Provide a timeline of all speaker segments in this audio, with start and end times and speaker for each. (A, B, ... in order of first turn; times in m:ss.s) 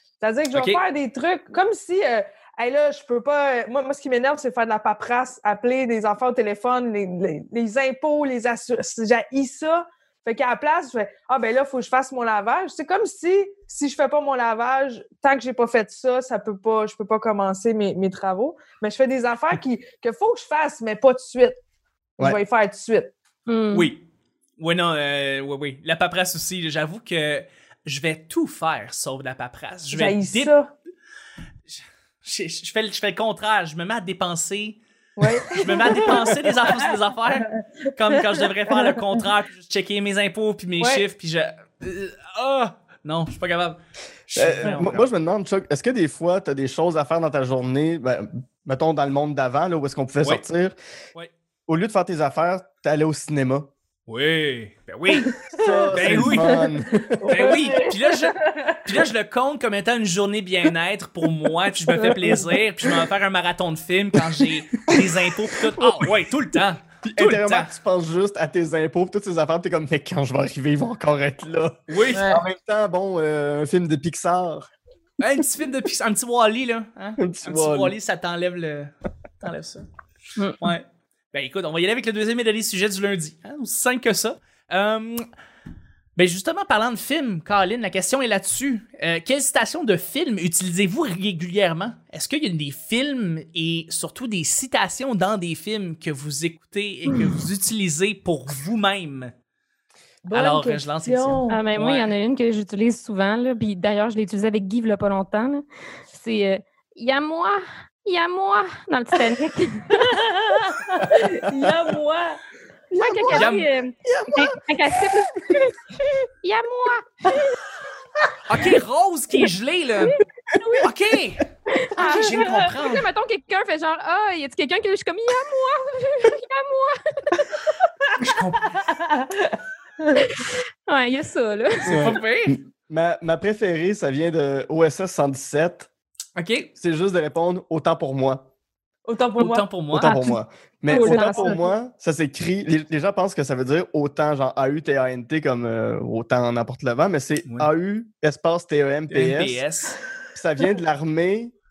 0:00.2-0:21.6 A
0:00.5-0:00.8 B
0:22.2-0:23.1 A
0:23.5-0:23.9 C
0:23.7-0:24.0 B
0:24.6-0:30.5 B
0:29.9-0:30.7 A
0:31.7-0:34.8 B
0:35.2-0:37.6 A
0:35.5-0:45.1 B
0:38.7-0:39.0 A
0:40.8-0:41.0 A
0:44.4-0:50.8 D
0:51.7-0:53.7 D
0:54.1-0:55.3 B
0:55.1-0:58.8 A
0:55.5-0:57.6 D
0:55.9-0:56.6 B
0:57.3-1:07.7 B
1:02.0-1:02.5 A
1:05.8-1:06.1 D
1:07.0-1:14.7 D
1:11.9-1:12.3 B
1:12.2-1:12.4 A
1:15.2-1:19.9 B
1:17.2-1:17.9 D
1:20.4-1:20.7 C
1:20.6-1:25.2 B
1:26.2-1:39.3 B
1:40.3-1:41.6 A
1:40.3-1:42.1 B
1:41.5-1:50.0 C
1:50.0-1:52.4 A
1:52.9-1:55.8 C
1:53.0-1:53.5 D
1:53.3-1:53.7 B
1:54.0-1:55.2 D
1:56.4-1:57.4 C
1:58.5-2:00.2 B
2:00.0-2:00.9 C
2:00.8-2:03.1 B
2:01.7-2:07.7 C
2:02.0-2:02.5 A
2:08.2-2:08.7 B
2:08.8-2:10.2 A
2:10.3-2:12.1 C
2:11.9-2:15.9 D
2:11.9-2:12.6 B
2:16.4-2:16.7 B
2:16.8-2:18.5 D
2:19.0-2:19.7 A
2:19.4-2:20.2 B
2:19.9-2:29.6 D
2:20.0-2:21.7 C
2:20.9-2:21.5 A
2:29.1-2:30.0 B
2:30.4-2:31.5 D